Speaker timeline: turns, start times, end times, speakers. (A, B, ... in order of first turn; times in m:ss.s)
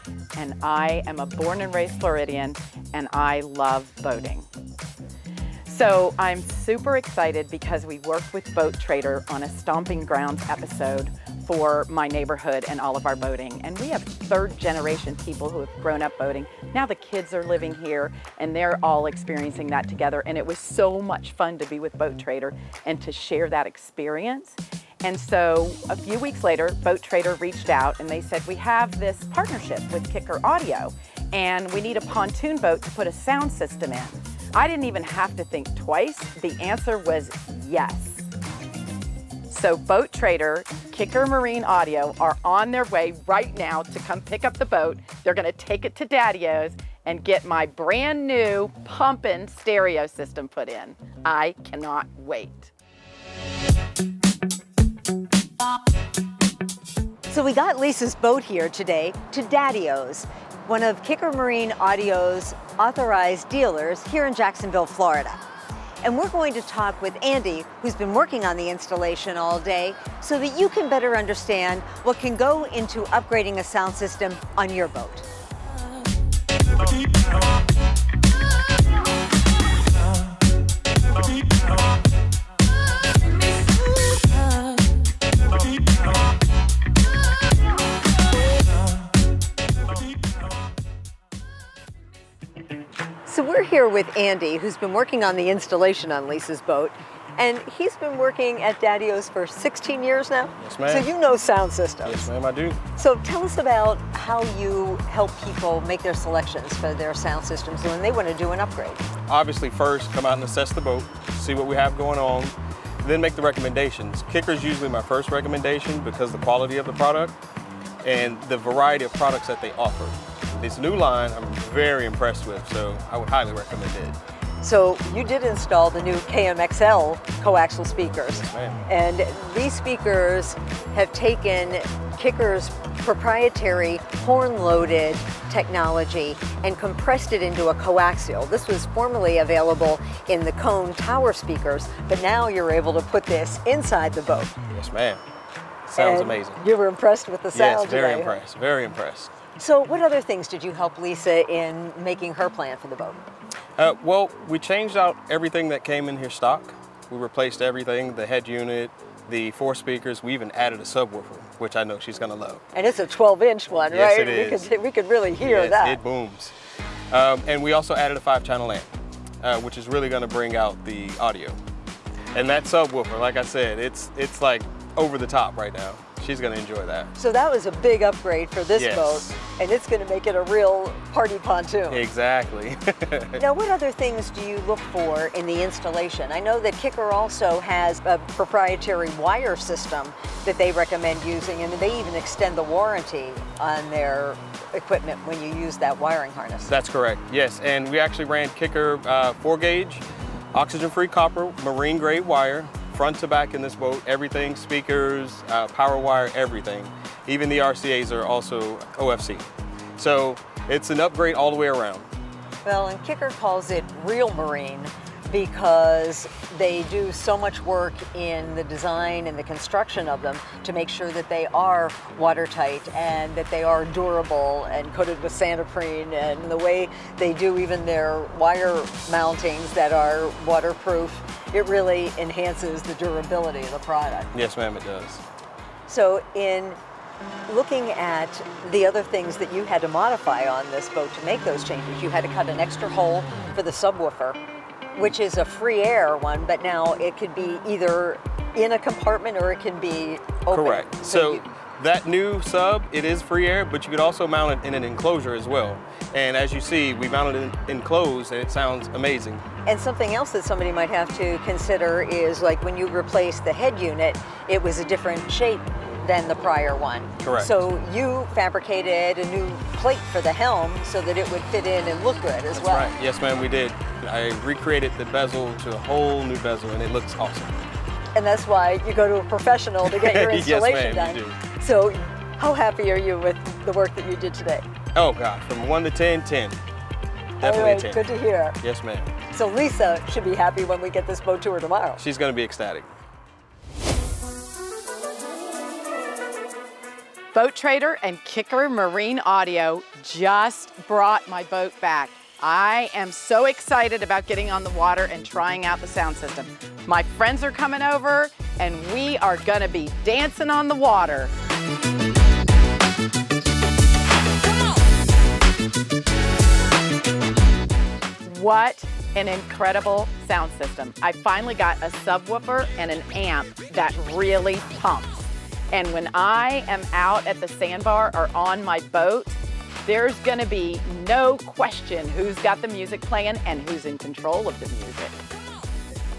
0:00.3-0:04.5 A
0:05.6-0:38.3 A
0:39.5-0:52.7 A
0:57.3-1:05.4 B
1:06.0-1:15.2 B
1:33.2-1:42.3 B
1:40.6-1:41.1 C
1:42.0-1:42.8 C
1:43.0-1:49.0 B
1:49.3-1:57.3 C
1:58.0-2:04.2 C
2:04.6-2:24.5 B
2:08.4-2:08.8 C
2:24.7-2:25.2 C
2:25.9-2:26.6 C
2:26.0-2:28.4 B
2:27.5-2:29.3 C
2:29.6-2:33.2 B
2:33.8-2:42.6 C
2:42.7-2:46.0 B
2:43.9-2:44.7 C
2:45.4-2:46.5 C
2:47.1-2:48.9 C
2:49.4-2:51.6 C
2:52.3-2:57.1 C
2:57.1-3:02.0 B
2:58.8-2:59.3 C
3:01.9-3:03.4 C
3:03.4-3:16.7 B
3:16.7-3:29.4 C
3:30.0-3:32.1 C
3:32.6-3:54.3 B
3:54.3-3:55.2 C
3:55.9-3:56.8 B
3:57.5-4:04.4 B
4:04.9-4:11.4 B
4:10.5-4:19.4 C
4:19.6-4:32.9 B
4:27.2-4:27.5 C
4:32.5-4:37.6 C
4:38.1-4:44.6 B
4:39.9-4:41.4 C
4:44.9-4:46.6 C
4:47.4-4:48.1 C
4:47.4-4:48.6 B
4:48.6-4:49.1 C
4:49.3-4:52.0 B
4:52.0-4:52.9 C
4:57.3-5:11.3 A
5:18.2-5:35.2 A